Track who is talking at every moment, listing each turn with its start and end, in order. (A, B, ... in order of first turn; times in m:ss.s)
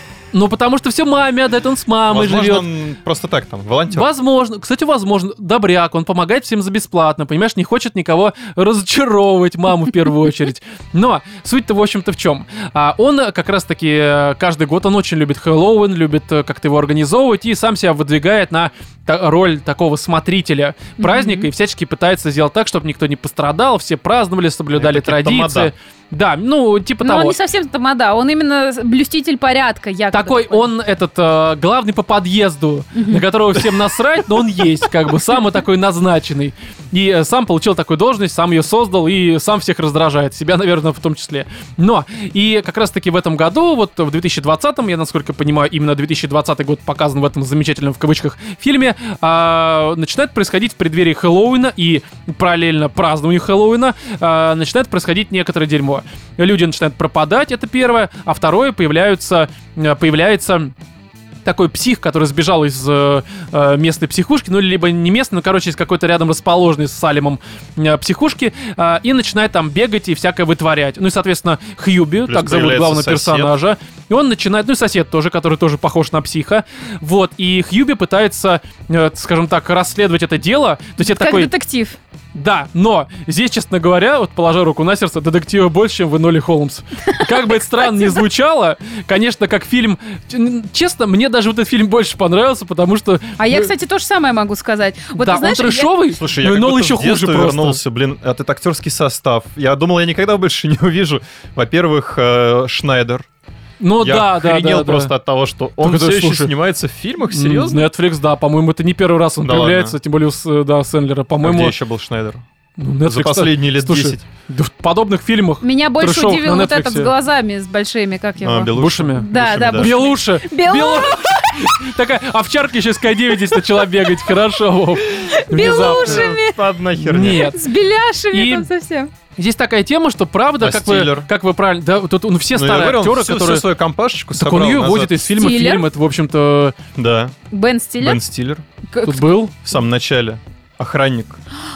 0:00.3-0:02.7 A
0:02.1-0:04.1 B
0:03.9-0:27.4 A
0:21.0-0:21.5 C
0:24.7-0:25.7 B
0:27.0-0:30.7 C
0:30.1-1:00.7 A
0:32.9-0:33.2 C
1:01.4-1:21.5 A
1:12.2-1:13.6 B
1:21.0-1:22.0 C
1:22.3-1:33.7 A
1:27.1-1:28.2 C
1:33.4-1:35.9 C
1:35.2-1:37.8 A
1:36.2-1:43.3 B
1:43.8-1:45.1 A
1:44.0-1:47.8 B
1:45.8-1:46.5 A
1:47.3-1:51.7 A
1:49.4-1:50.0 B
1:51.4-1:52.4 B
1:52.8-1:57.1 A
1:53.0-1:54.2 B
1:55.6-2:01.7 C
1:58.4-1:59.9 B
1:58.8-2:06.3 A
2:03.5-2:03.8 C
2:05.1-2:06.6 C
2:05.5-2:07.5 B
2:07.0-2:07.6 A
2:07.2-2:09.1 C
2:08.3-2:08.7 A
2:09.4-2:13.6 A
2:10.6-2:11.3 B
2:12.5-2:15.3 B
2:14.3-2:16.8 A
2:15.4-2:15.9 C
2:16.9-2:17.3 B
2:17.5-2:18.2 C
2:18.0-2:18.6 B
2:18.9-2:19.4 C
2:19.0-2:19.5 A
2:19.6-2:21.4 B